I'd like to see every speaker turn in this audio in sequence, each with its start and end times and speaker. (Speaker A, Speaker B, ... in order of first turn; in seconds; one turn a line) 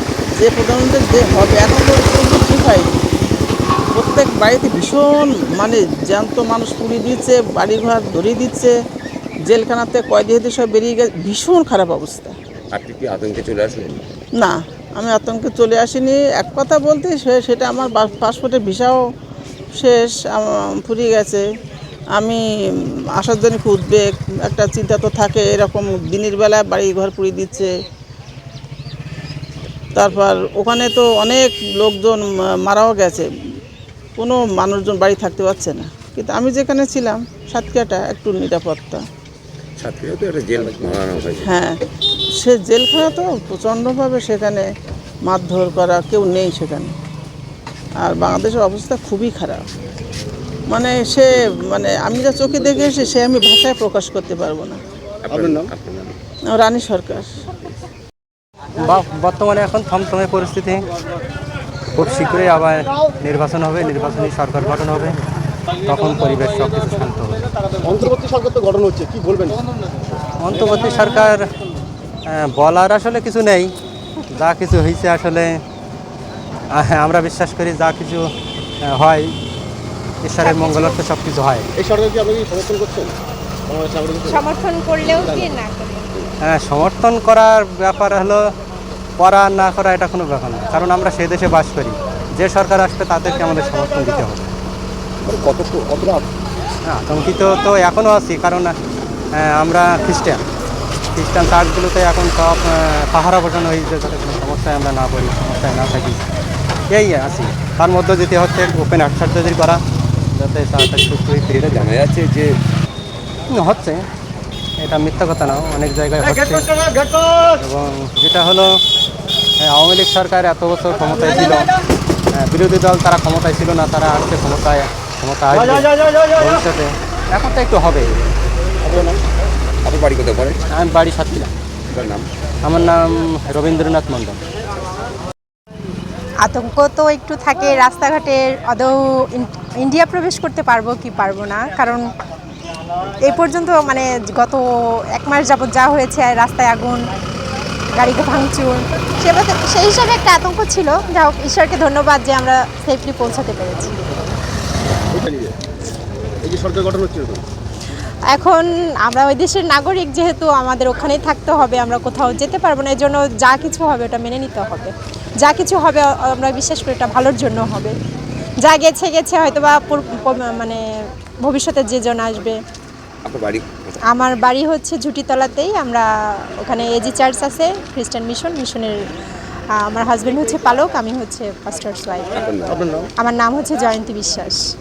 Speaker A: 0.4-2.9
Speaker A: 3.9-8.7
Speaker A: 9.4-12.3
Speaker B: 12.7-14.1
Speaker A: 14.4-19.0
Speaker A: 19.8-21.4
Speaker A: 22.1-22.4
Speaker A: 23.2-27.7
Speaker A: 29.9-33.3
Speaker A: 34.2-39.0
Speaker B: 39.8-41.5
Speaker C: 40.6-41.2
Speaker A: 41.4-41.8
Speaker A: 42.4-44.7
Speaker A: 45.2-46.9
Speaker A: 48.0-49.6
Speaker A: 50.7-54.8
Speaker C: 55.3-55.7
Speaker B: 55.3-56.2
Speaker A: 56.5-57.4
Speaker D: 58.8-60.8
Speaker D: 61.9-65.2
Speaker D: 65.8-67.4
Speaker C: 67.8-69.6
Speaker D: 70.4-71.5
Speaker D: 72.2-73.7
Speaker D: 74.3-75.6
Speaker D: 76.7-78.3
Speaker D: 78.8-79.3
Speaker D: 80.2-81.7
Speaker E: 80.4-81.0
Speaker C: 81.7-83.1
Speaker C: 83.7-84.5
Speaker E: 84.2-86.1
Speaker C: 85.0-85.5
Speaker D: 86.4-88.4
Speaker D: 89.2-94.5
Speaker C: 95.3-96.2
Speaker D: 96.9-98.8
Speaker D: 99.3-100.4
Speaker D: 101.1-106.2
Speaker D: 106.9-109.8
Speaker D: 110.3-111.9
Speaker B: 111.6-112.6
Speaker D: 113.5-114.0
Speaker D: 114.8-116.8
Speaker D: 117.6-118.8
Speaker D: 119.6-121.7
Speaker D: 122.3-128.2
Speaker C: 128.8-129.2
Speaker B: 129.8-130.6
Speaker D: 130.7-131.5
Speaker B: 131.9-132.2
Speaker D: 132.6-134.4
Speaker E: 136.4-142.0
Speaker E: 143.2-147.0
Speaker E: 147.9-153.9
Speaker C: 155.1-155.5
Speaker C: 156.4-157.4
Speaker E: 158.3-167.9
Speaker E: 168.6-170.8
Speaker E: 171.4-172.6
Speaker B: 173.2-174.0
Speaker E: 174.1-179.0
Speaker E: 179.8-182.4
Speaker B: 182.3-182.8
Speaker C: 182.7-183.1
Speaker E: 183.2-184.6